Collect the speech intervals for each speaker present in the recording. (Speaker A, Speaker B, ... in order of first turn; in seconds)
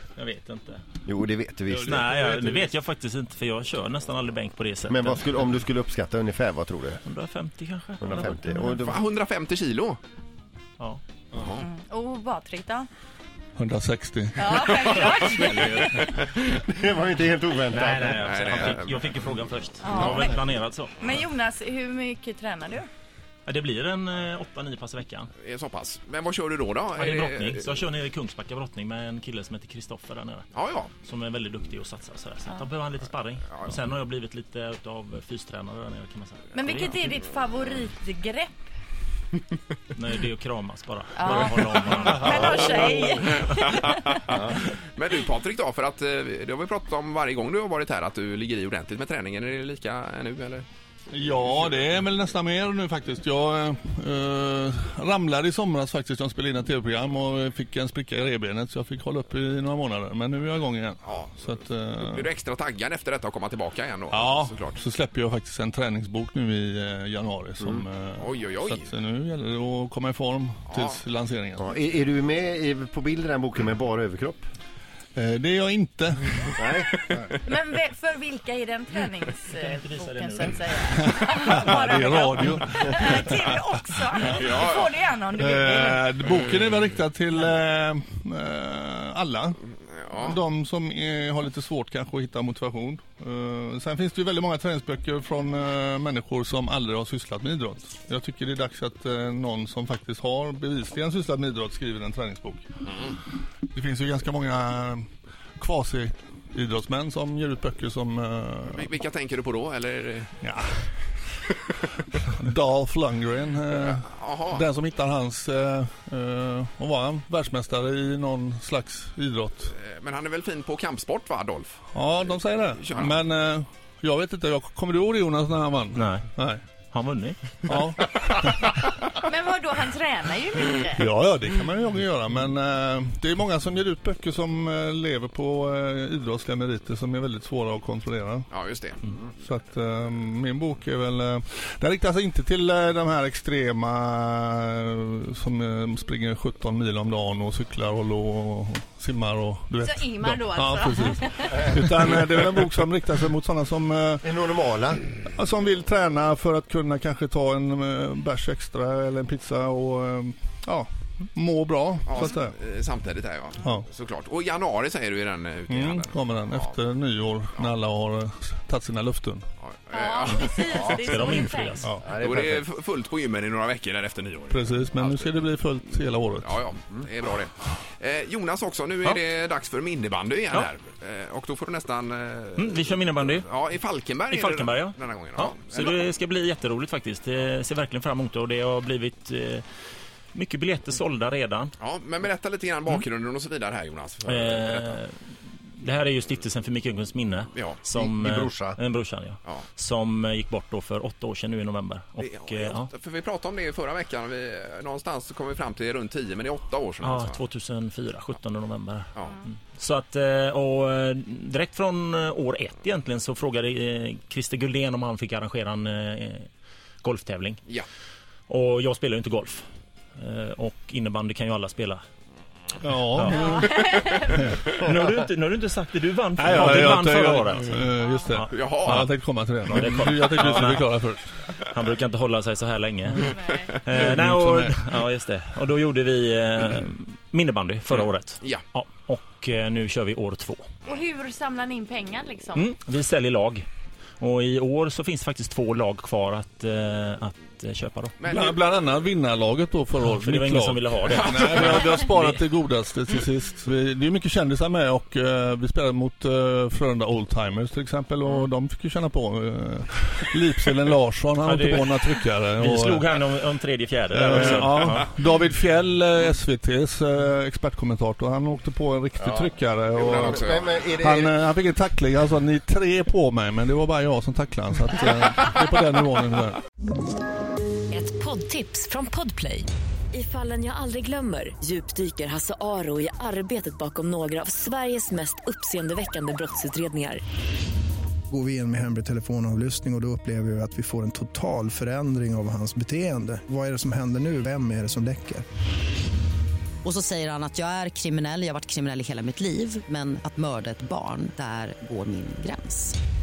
Speaker A: 0.1-0.8, 1.8-5.2, 7.0-8.7, 17.7-21.0, 23.4-25.3, 26.9-30.5, 31.0-36.9, 39.9-43.4, 79.5-80.6, 125.9-126.3, 126.9-127.4, 170.9-171.9, 182.6-183.4, 184.3-189.6, 190.3-191.7, 194.2-195.1, 195.8-202.9, 207.0-209.1, 209.7-216.5, 217.0-217.6, 218.5-219.6, 220.2-222.0, 223.1-223.7, 224.6-227.8, 228.3-229.1, 229.6-230.8, 231.7-240.7, 242.5-243.6, 244.2-248.1, 250.0-252.4, 261.4-261.9, 262.6-265.1
Speaker B: 1.1-2.1, 4.9-7.0, 8.0-9.0, 16.4-18.5, 71.6-74.4, 76.6-77.2, 154.2-155.1, 172.0-172.7, 197.9-198.8, 270.1-271.3
Speaker C: 1.7-2.6, 13.6-15.0, 51.1-62.3, 64.1-71.7, 75.1-76.8, 80.9-83.6, 85.3-102.7, 103.7-105.0, 105.6-108.9, 110.4-110.8, 112.3-119.7, 121.9-126.6, 127.7-128.8, 130.9-138.5, 139.4-154.3, 155.2-162.5, 165.7-169.4, 174.5-176.6, 222.8-223.6, 226.4-231.3, 233.9-234.8, 248.2-263.1, 264.1-270.5, 271.0-276.6
Speaker D: 8.8-10.0, 11.3-11.7, 15.2-15.9, 18.1-19.0, 25.4-27.6, 30.5-30.9, 43.5-50.6, 61.0-61.5, 62.0-64.8, 68.2-68.9, 70.7-71.0, 84.3-84.9, 90.0-90.4, 108.7-110.3, 113.8-114.7, 119.7-121.8, 122.8-123.2, 138.5-139.1, 162.1-166.8, 169.6-171.4, 172.1-175.3, 176.4-186.0, 191.8-195.0, 197.5-197.8, 202.2-207.4, 228.5-229.0, 248.2-248.7, 251.1-251.9, 269.2-270.8
Speaker E: 11.6-12.9, 14.3-16.1, 19.8-20.4, 21.0-22.9, 36.5-38.6, 41.1-44.2, 77.4-86.1, 129.2-131.1, 149.8-151.9, 169.9-171.8, 240.9-242.7
Speaker F: 277.9-287.2
Speaker G: 288.3-295.4
Speaker H: 296.8-302.9